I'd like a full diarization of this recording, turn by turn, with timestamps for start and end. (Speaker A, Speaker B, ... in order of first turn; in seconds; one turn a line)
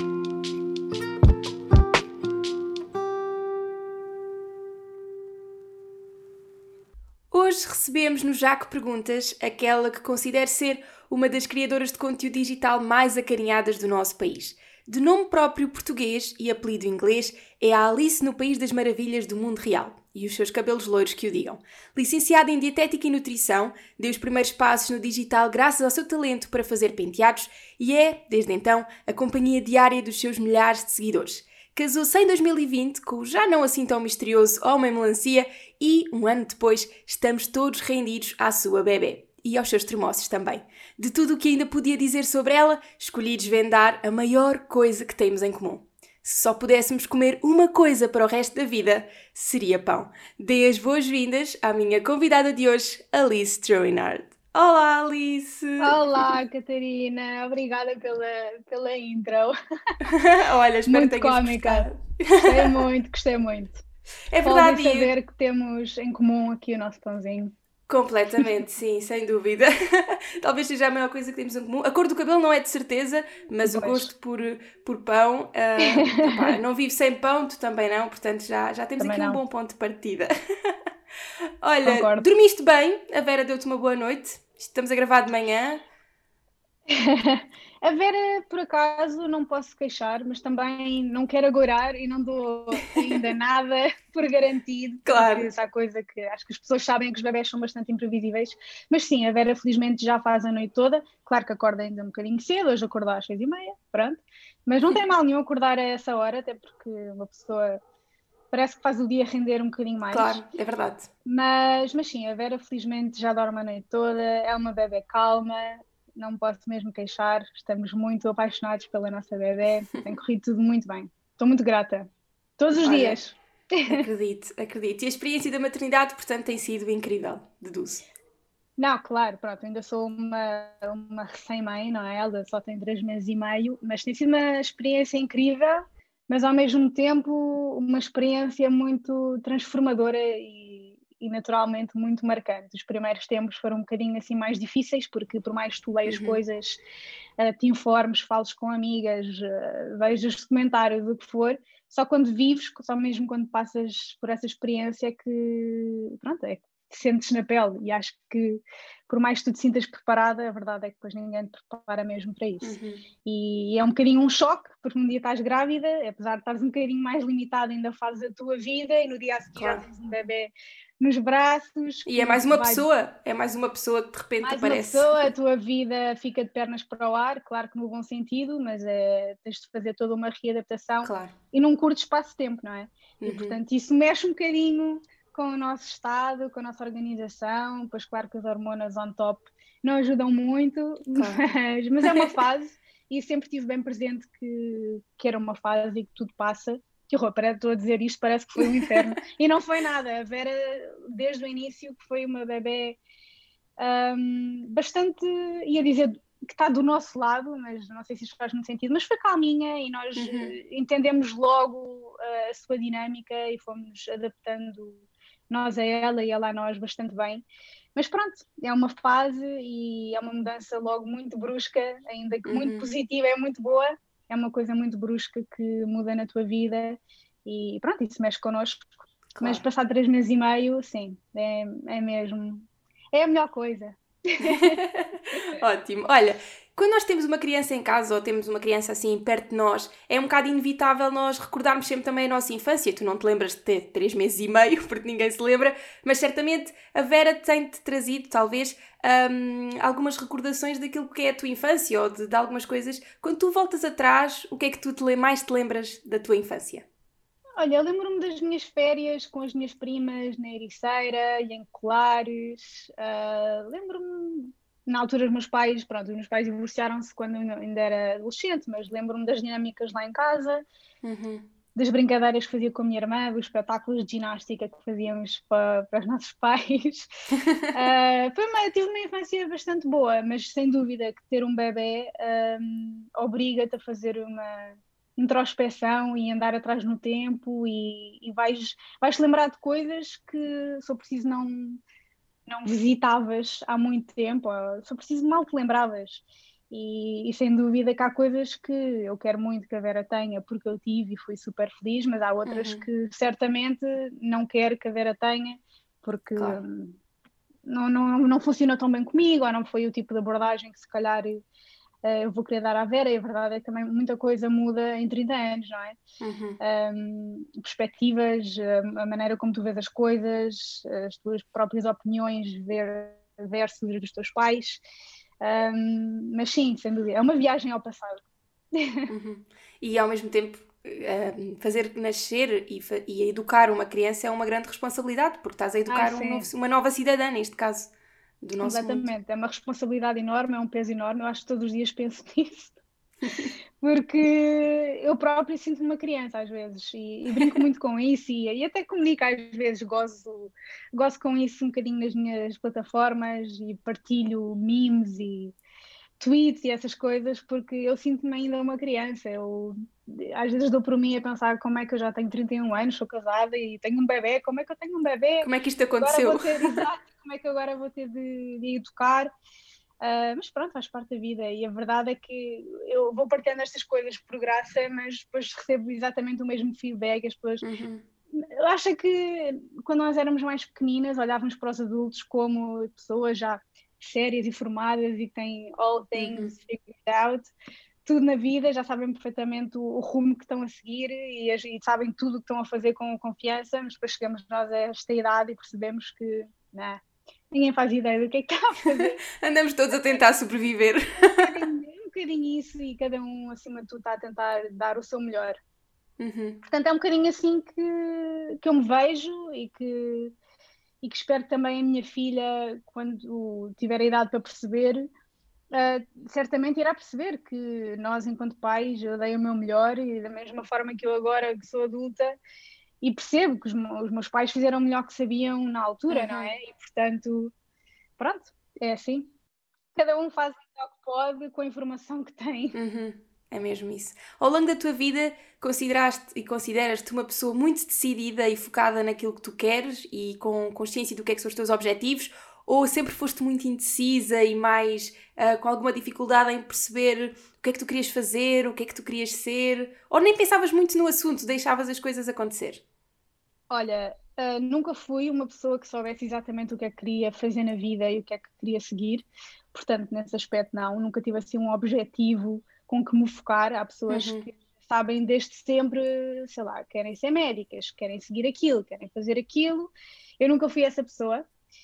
Speaker A: 7.3-56.3
Speaker B: 55.8-59.5
Speaker A: 60.0-62.9
Speaker B: 60.9-61.9
Speaker B: 62.4-63.8
Speaker A: 64.3-65.1
Speaker B: 64.4-67.5
Speaker A: 67.9-80.7
Speaker B: 73.6-74.1
Speaker B: 75.8-76.6
Speaker B: 79.0-79.4
Speaker A: 81.6-85.8
Speaker B: 81.8-82.2
Speaker B: 86.9-107.8
Speaker A: 92.9-93.2
Speaker A: 95.0-95.5
Speaker B: 108.5-110.4
Speaker A: 110.1-111.1
Speaker B: 111.2-124.0
Speaker A: 122.8-123.2
Speaker A: 123.9-128.1
Speaker B: 128.8-146.8
Speaker A: 146.1-146.4
Speaker B: 147.4-172.8
Speaker A: 162.6-163.0
Speaker A: 169.6-169.8
Speaker A: 172.1-175.3
Speaker B: 174.4-203.0
Speaker A: 181.0-181.3
Speaker A: 183.2-183.6
Speaker A: 191.1-191.4
Speaker A: 198.6-199.2
Speaker B: 203.8-234.8
Speaker A: 210.2-210.5
Speaker A: 222.4-222.9
Speaker A: 229.3-229.6
Speaker A: 234.4-256.9
Speaker B: 257.6-270.6
Speaker A: 271.0-271.5
Speaker B: 271.7-277.1
Speaker A: 277.3-277.7
Speaker B: 277.7-291.8
Speaker B: 292.5-307.0
Speaker A: 302.4-302.9
Speaker A: 306.4-306.6
Speaker B: 307.6-311.4
Speaker B: 312.0-316.0
Speaker A: 316.2-316.6
Speaker B: 316.6-324.8
Speaker B: 325.4-329.1
Speaker A: 329.1-339.1
Speaker B: 335.9-336.5
Speaker B: 338.6-342.7
Speaker A: 343.2-343.5
Speaker B: 343.8-355.5
Speaker A: 347.3-347.6
Speaker B: 356.2-365.5
Speaker A: 365.4-366.9
Speaker B: 366.0-369.3
Speaker B: 370.0-377.6
Speaker A: 377.6-378.0
Speaker B: 378.3-387.5
Speaker A: 386.1-386.5
Speaker B: 388.0-399.2
Speaker A: 399.3-401.6
Speaker B: 401.2-405.6
Speaker A: 406.2-406.6
Speaker B: 406.6-410.3
Speaker B: 411.0-415.1
Speaker B: 415.7-422.4
Speaker B: 423.0-427.5
Speaker A: 426.1-426.6
Speaker B: 428.2-429.3
Speaker B: 429.9-432.8
Speaker A: 432.7-452.8
Speaker B: 453.7-471.4
Speaker A: 464.1-464.5